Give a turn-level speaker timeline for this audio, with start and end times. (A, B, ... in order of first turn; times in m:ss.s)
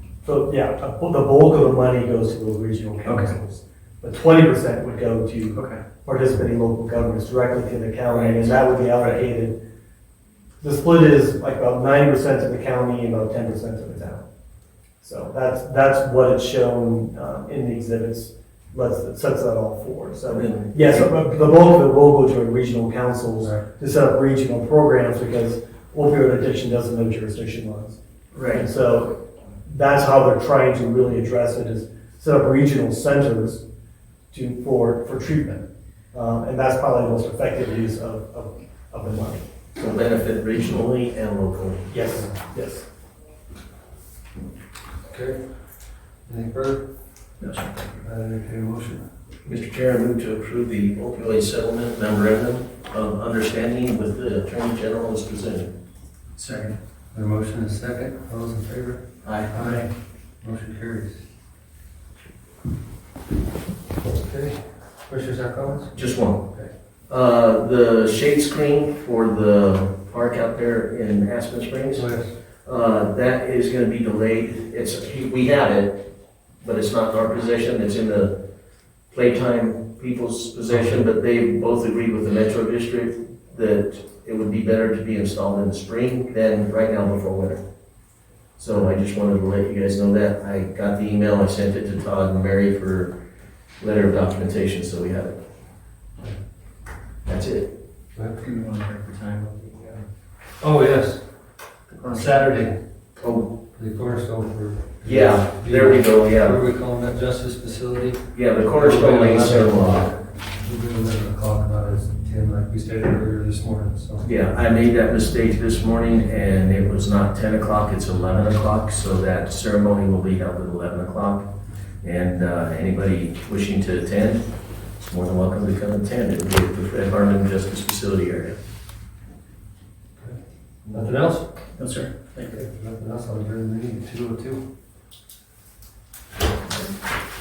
0:00.2-0:09.6 A
0:03.0-0:03.3 B
0:05.5-0:05.8 B
0:08.1-0:09.2 B
0:10.6-0:14.2 A
0:15.0-0:28.0 A
0:20.3-0:21.1 C
0:28.3-0:28.7 C
0:28.5-0:33.6 A
0:34.3-0:39.4 A
0:39.8-0:42.0 C
0:41.9-0:42.8 A
0:45.1-0:45.4 D
0:46.3-0:46.8 D
0:47.4-0:47.7 B
0:48.0-0:49.1 D
0:49.4-0:55.7 C
0:56.4-0:56.8 B
0:57.1-0:59.9 D
0:59.2-0:59.5 C
0:59.5-0:59.9 B
1:00.4-1:01.2 D
1:04.0-1:06.0 D
1:05.9-1:06.5 C
1:07.1-1:12.1 C
1:11.9-1:12.3 D
1:12.6-1:16.0 C
1:16.6-1:18.3 C
1:19.1-1:27.6 C
1:28.6-1:33.1 C
1:33.8-1:35.4 C
1:37.2-1:37.7 C
1:38.4-1:40.0 B
1:40.6-1:41.2 D
1:41.9-1:42.4 B
1:42.1-1:42.8 D
1:43.2-1:43.5 C
1:43.8-1:54.2 D
1:45.0-1:46.6 C
1:48.3-1:50.1 C
1:54.2-2:01.5 C
2:02.0-2:04.5 C
2:05.1-2:08.6 C
2:10.8-2:11.1 C
2:10.9-2:11.5 D
2:11.8-2:12.6 B
2:12.5-2:14.6 D